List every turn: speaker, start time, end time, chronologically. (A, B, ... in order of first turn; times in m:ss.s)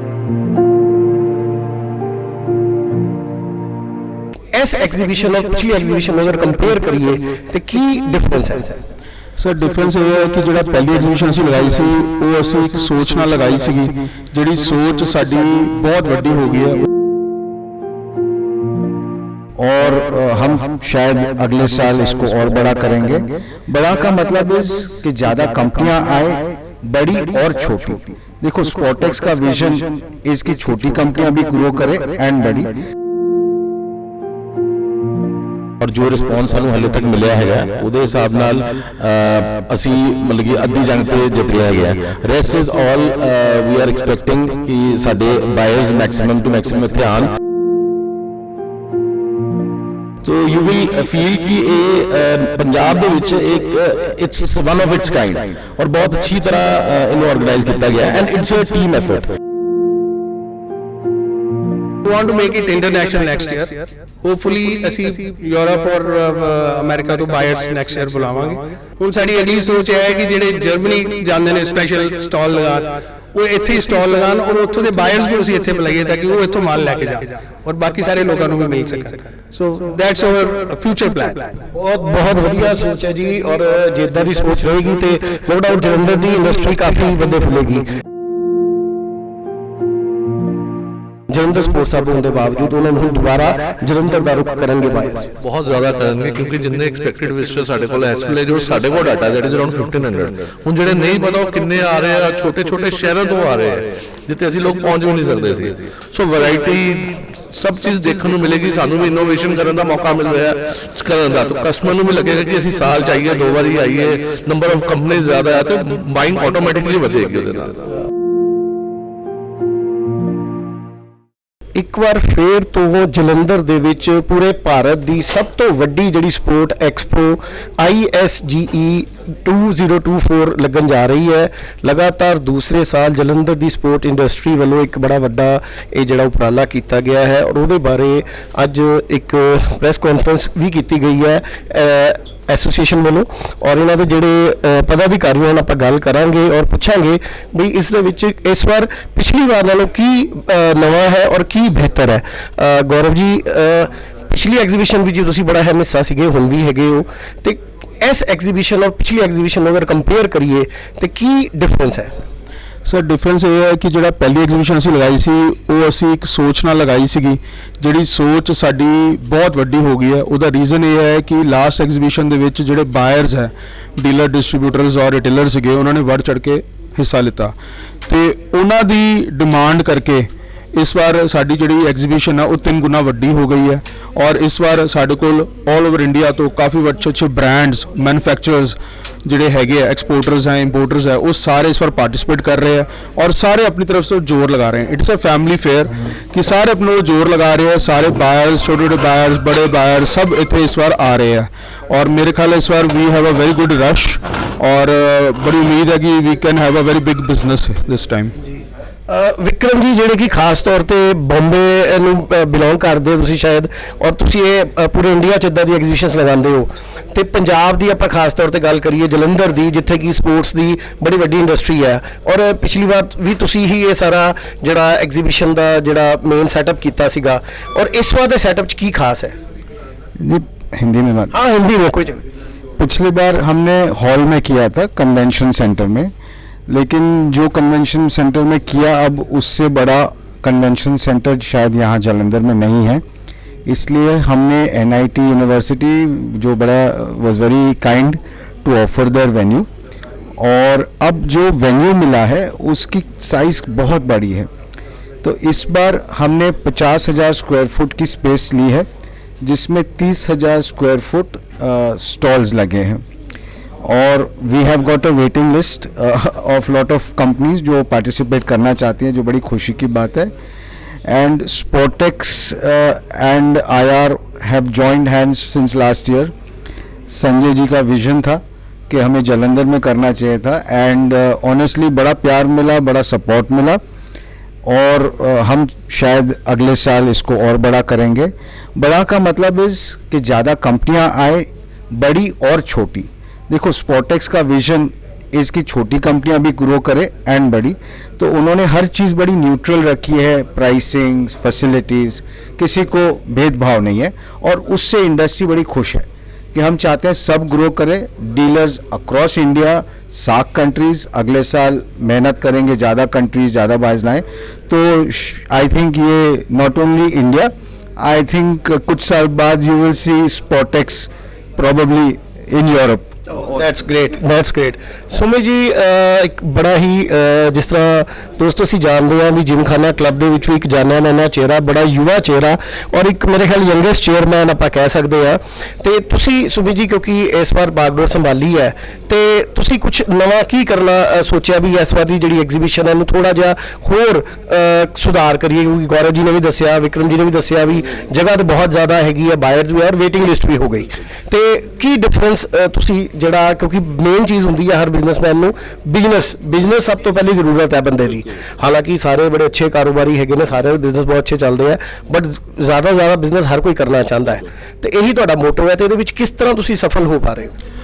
0:04.5-0:08.8 A
0:09.4-0:16.8 B
0:19.6-0:32.8 C
0:35.8-0:47.3 D
0:50.2-0:59.3 D
1:02.0-1:21.6 E
1:21.7-1:27.9 A
1:31.3-1:35.3 A
1:35.4-1:57.8 F
2:01.7-2:42.1 A
2:42.8-2:57.5 B
2:58.1-3:28.3 B
3:29.1-3:49.3 A
3:50.2-3:51.3 C
3:51.3-3:52.2 A
3:52.8-3:56.1 C
3:56.7-4:03.0 C
4:03.6-4:09.7 C
4:10.4-4:14.5 C
4:15.2-4:18.9 C
4:19.4-4:23.0 C
4:23.8-4:30.3 C
4:31.0-4:36.3 C
4:37.1-4:43.8 C
4:44.6-5:23.1 C
5:23.3-6:07.5 A